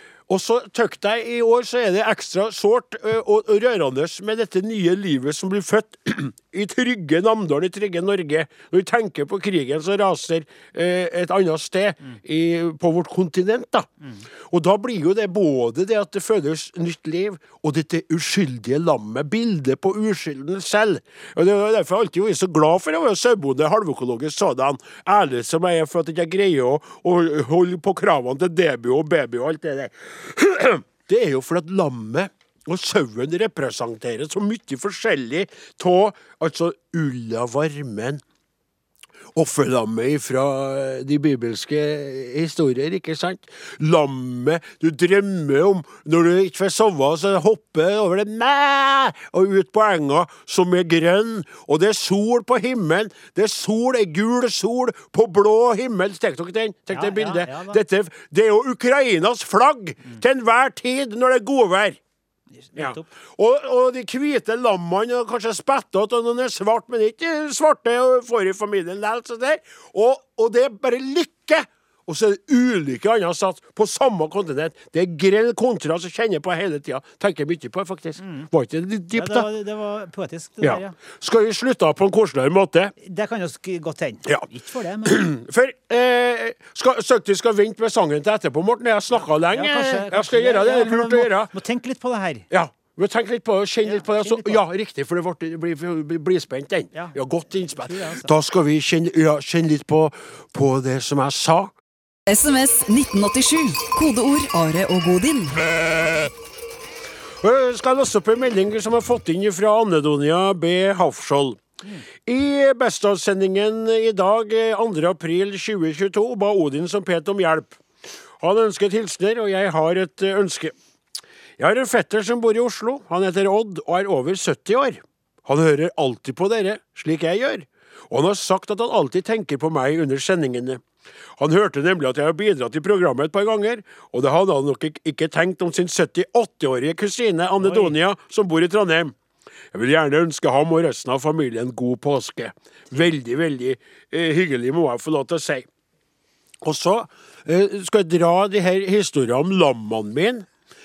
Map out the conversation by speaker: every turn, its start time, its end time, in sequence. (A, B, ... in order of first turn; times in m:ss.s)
0:00.3-0:13.9 A
0:14.5-0:38.2 A
0:39.3-1:02.0 A
0:56.9-0:57.8 B
1:02.6-1:03.1 B
1:02.8-1:19.5 A
1:18.2-1:18.5 B
1:19.1-1:21.0 B
1:20.6-1:22.9 A
1:23.0-1:25.2 B
1:25.0-1:31.5 A
1:29.5-1:32.5 B
1:32.5-1:41.7 A
1:33.8-1:34.6 B
1:37.7-1:38.3 B
1:42.3-1:46.3 C
1:47.4-1:51.6 A
1:52.2-1:57.8 A
1:58.4-2:00.7 A
2:01.6-2:10.8 A
2:11.4-2:19.1 A
2:17.6-2:17.9 B
2:19.7-2:25.7 A
2:26.6-2:30.4 A